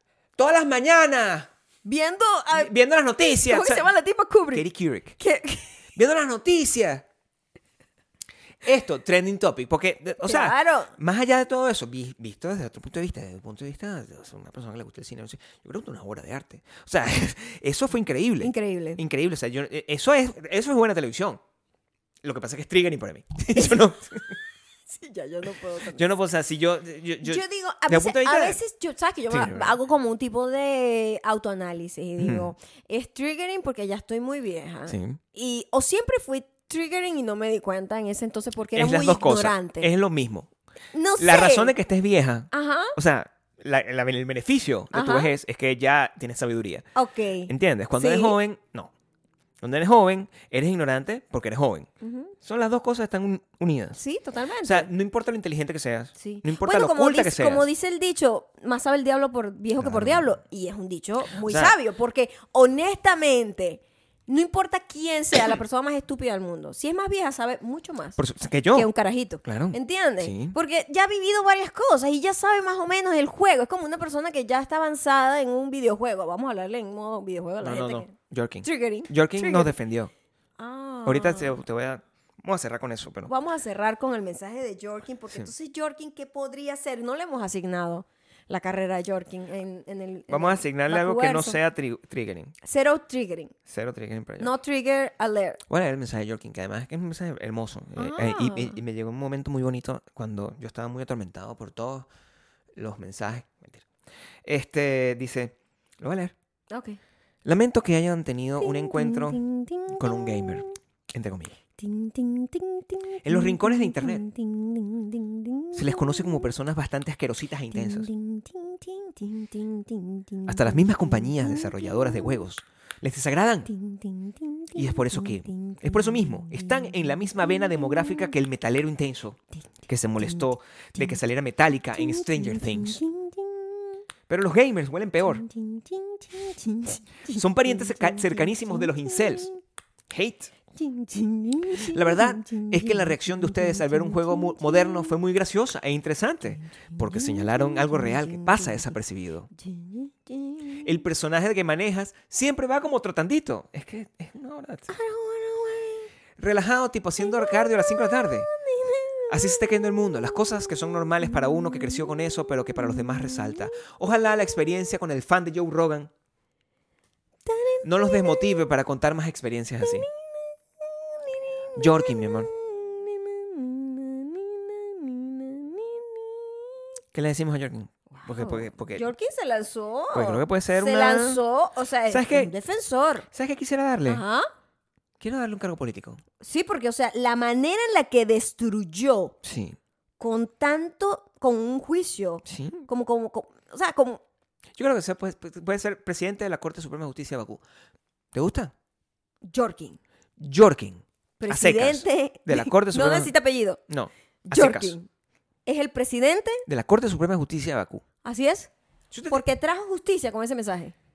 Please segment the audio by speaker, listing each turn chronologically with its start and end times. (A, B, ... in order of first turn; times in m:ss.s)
0:00.4-0:01.5 A
0:01.8-0:02.7 B
0:02.5-0:03.9 A
0:03.4-0:04.6 B
0:04.5-0:05.2 A
0:05.2-0:05.8 B
0:06.0-0:07.0 A
0:08.6-0:21.4 A
0:10.2-0:10.9 B
0:18.4-0:19.0 B
0:22.2-0:24.4 A
0:24.9-0:26.1 B
0:25.9-0:28.6 A
0:27.2-0:39.9 B
0:29.3-0:29.8 A
0:32.2-0:32.5 A
0:34.9-0:35.2 A
0:38.8-0:40.5 A
0:40.9-0:41.7 B
0:41.2-0:46.9 A
0:42.5-0:42.9 B
0:44.9-0:45.3 B
0:46.9-0:48.4 B
0:47.5-0:48.9 A
0:49.6-0:51.9 A
0:52.0-0:52.3 B
0:52.4-0:54.0 A
0:54.0-0:54.9 B
0:54.6-0:57.6 A
0:56.2-1:08.2 B
0:59.8-1:00.3 A
1:01.4-1:01.8 A
1:08.2-1:08.9 A
1:08.7-1:19.7 B
1:09.4-1:10.6 A
1:17.6-1:20.1 A
1:20.6-1:21.6 B
1:21.0-1:23.3 A
1:23.2-1:31.6 B
1:30.3-1:32.5 A
1:32.6-1:33.5 B
1:33.7-1:34.5 A
1:34.4-1:35.6 B
1:35.7-1:42.1 A
1:38.0-1:38.8 B
1:42.8-1:43.8 A
1:44.4-1:46.3 A
1:46.7-1:47.0 B
1:47.4-1:51.6 A
1:48.6-1:50.8 B
1:51.8-1:56.5 B
1:53.2-1:54.2 A
1:55.7-1:58.1 A
1:57.7-2:02.4 B
2:00.4-2:03.7 A
2:03.7-2:08.3 B
2:04.7-2:13.0 A
2:10.2-2:11.2 B
2:12.0-2:14.0 B
2:14.3-2:15.4 A
2:15.2-2:19.6 B
2:17.3-2:19.5 A
2:20.1-2:20.5 A
2:20.8-2:25.1 B
2:21.7-2:29.5 A
2:26.6-2:29.0 B
2:29.5-2:31.0 B
2:30.8-2:34.9 A
2:34.9-2:36.1 B
2:36.4-2:38.5 A
2:37.2-2:43.8 B
2:39.3-2:46.1 A
2:47.4-2:48.7 B
2:47.8-2:50.1 A
2:49.8-2:56.8 B
2:51.8-2:52.5 A
2:57.1-2:59.1 A
2:58.1-3:03.3 B
3:00.1-3:01.4 A
3:02.1-3:02.5 A
3:03.3-3:04.2 A
3:04.0-3:04.5 B
3:05.2-3:06.2 A
3:06.4-3:09.4 B
3:09.4-3:09.8 A
3:10.2-3:14.2 B
3:12.4-3:12.8 A
3:14.8-3:17.6 A
3:18.3-3:18.7 A
3:19.4-3:20.0 B
3:20.4-3:23.3 A
3:21.4-3:23.8 B
3:23.9-3:25.0 A
3:24.5-3:25.1 B
3:25.6-3:26.6 B
3:26.7-3:28.0 A
3:28.2-3:28.7 B
3:29.1-3:29.4 A
3:29.3-3:30.9 B